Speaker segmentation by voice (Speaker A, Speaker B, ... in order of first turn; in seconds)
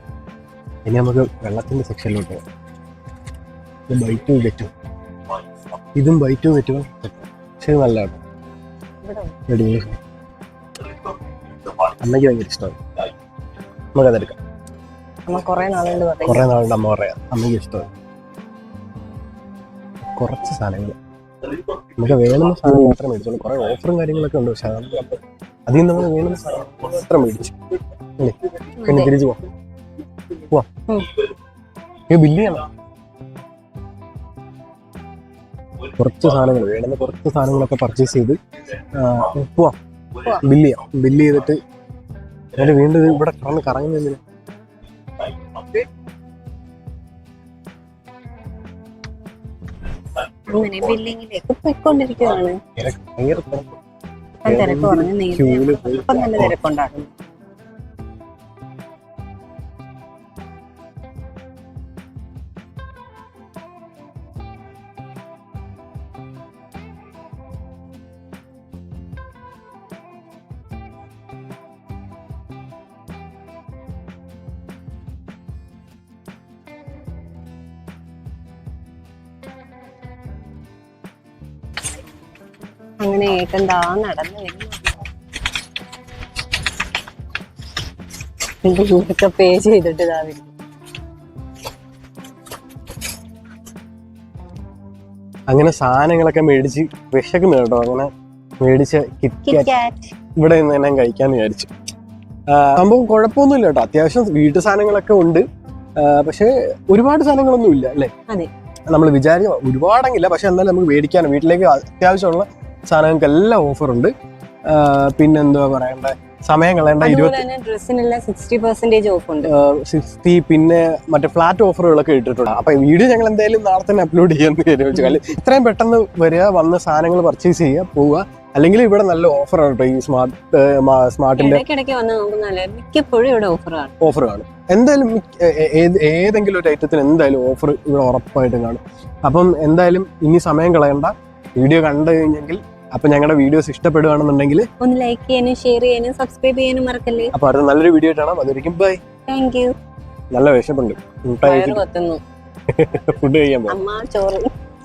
Speaker A: 0.8-2.4, 3.9-4.7, 6.0-8.2, 9.5-10.0, 11.7-12.8, 13.9-14.4, 16.2-17.9, 20.0-20.9, 22.0-27.6, 28.2-29.4, 32.1-32.7, 36.0-38.4, 38.9-39.7, 40.4-41.6, 42.5-44.2, 52.8-53.8, 54.5-56.5, 95.5-98.1, 98.6-99.7, 100.4-101.7, 102.5-105.4, 106.0-108.1, 108.9-114.1, 114.7-117.4, 119.4-131.6, 134.0-144.6, 147.3-149.0, 150.3-151.8, 152.7-153.8
Speaker B: 9.0-9.3, 15.3-16.5, 28.8-29.1, 50.5-52.6, 54.4-57.1, 83.0-85.0, 88.6-90.5, 99.4-100.1, 117.0-119.5, 131.4-133.9, 144.8-147.3, 149.3-149.7, 151.4-152.2, 153.7-154.5